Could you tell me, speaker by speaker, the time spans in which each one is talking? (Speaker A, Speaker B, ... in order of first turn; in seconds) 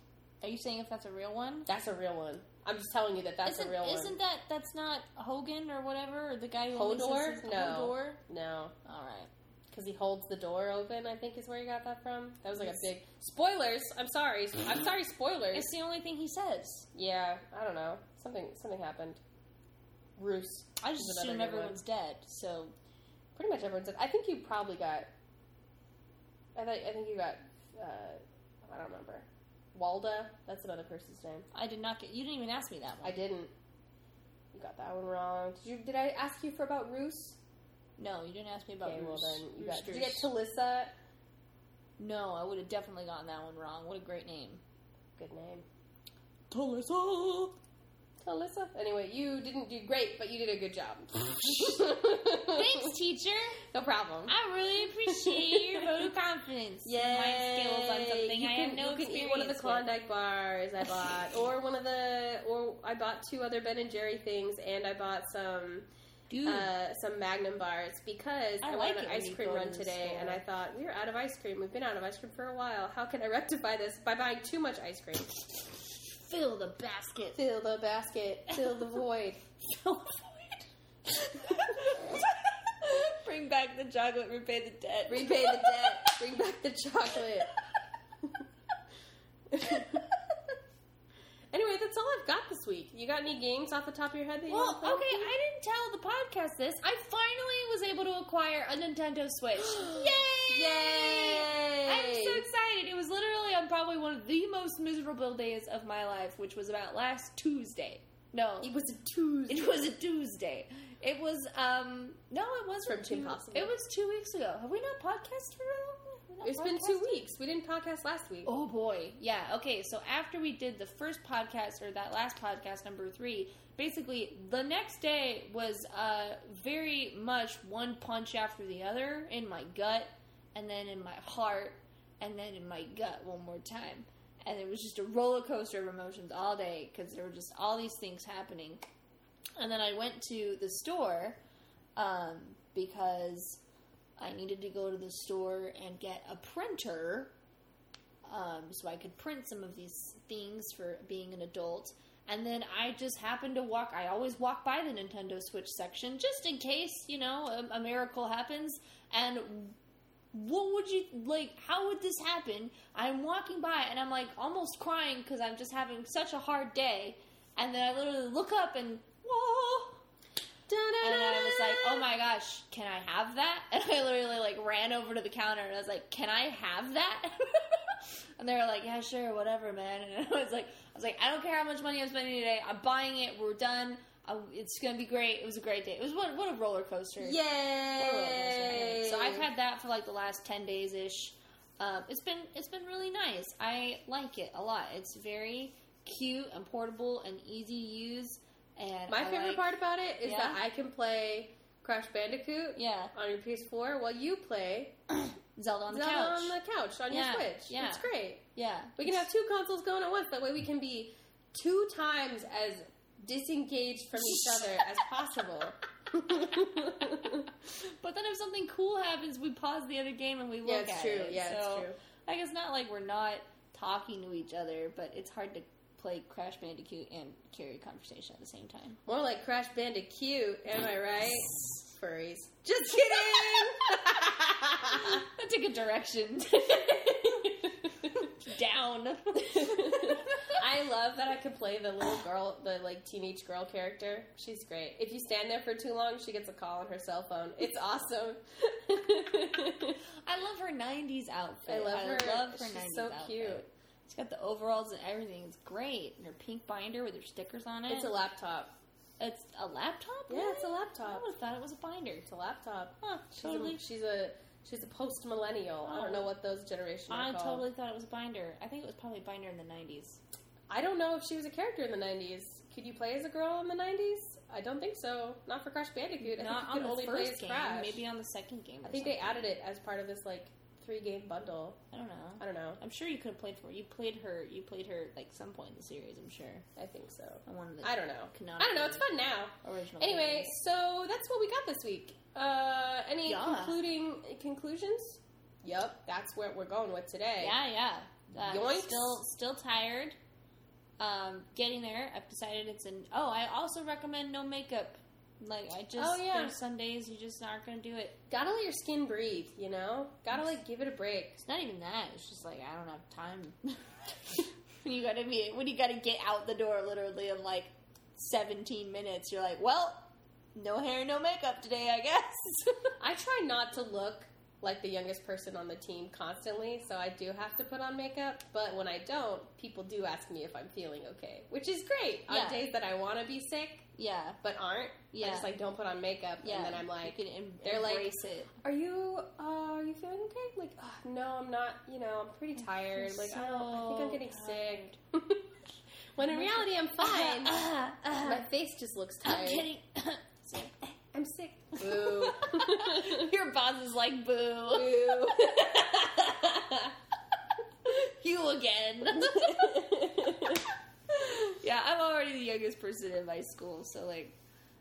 Speaker A: 0.4-1.7, 3.4-8.2, 8.8-9.3, 12.6-12.8, 15.5-16.9, 20.8-22.7, 31.5-33.2, 38.0-40.3, 42.0-44.6, 46.5-47.5, 51.5-53.6, 54.3-59.9, 66.3-66.7, 68.6-70.4, 76.1-77.4, 78.5-78.9, 79.6-86.2, 89.7-89.9, 94.5-108.7, 109.5-117.2, 118.4-138.9, 139.6-141.4, 141.9-143.6, 144.2-147.3, 148.2-159.8, 160.3-170.0, 171.0-187.4, 188.0-200.6, 202.8-203.1, 205.1-206.6, 207.1-209.2, 214.2-214.8, 217.7-229.0, 232.7-240.6, 250.2-258.1, 259.2-262.3, 263.0-263.8, 265.8-266.3, 267.1-270.2, 276.2-279.5, 281.9-286.6, 287.4-289.1, 289.6-290.6, 293.2-293.8, 297.4-300.1, 301.0-308.2, 311.4-322.9, 332.3-332.6, 333.9-334.4, 335.1-335.5, 336.4-338.5, 342.6-344.9, 346.2-348.4, 349.2-350.9, 351.8-356.9, 357.8-360.5, 361.1-364.4
Speaker B: 1.6-4.2, 6.7-8.7, 9.7-15.7, 16.9-19.2, 20.2-21.8, 23.4-25.1, 26.6-31.5, 33.0-33.5, 34.5-37.4, 38.8-40.9, 45.2-45.6, 48.2-52.9, 53.7-54.4, 55.0-56.1, 56.8-65.9, 66.4-75.3, 77.3-79.4, 85.1-87.5, 89.5-90.1, 91.5-95.3, 99.6-102.4, 108.6-109.8, 112.8-113.7, 116.4-118.5, 170.7-172.1, 187.2-189.5, 199.1-205.0, 205.9-208.4, 209.0-217.5, 220.6-222.0, 229.1-235.2, 236.7-238.3, 239.4-250.0, 251.7-253.7, 257.9-258.7, 260.3-261.2, 262.2-267.7, 270.7-278.0, 278.8-281.8, 282.4-282.8, 286.8-297.6, 298.4-299.2, 305.9-306.6, 308.3-311.4, 323.0-333.9, 334.4-345.5, 346.2-347.6, 348.2-349.7, 351.1-353.3, 354.7-355.7, 359.2-360.6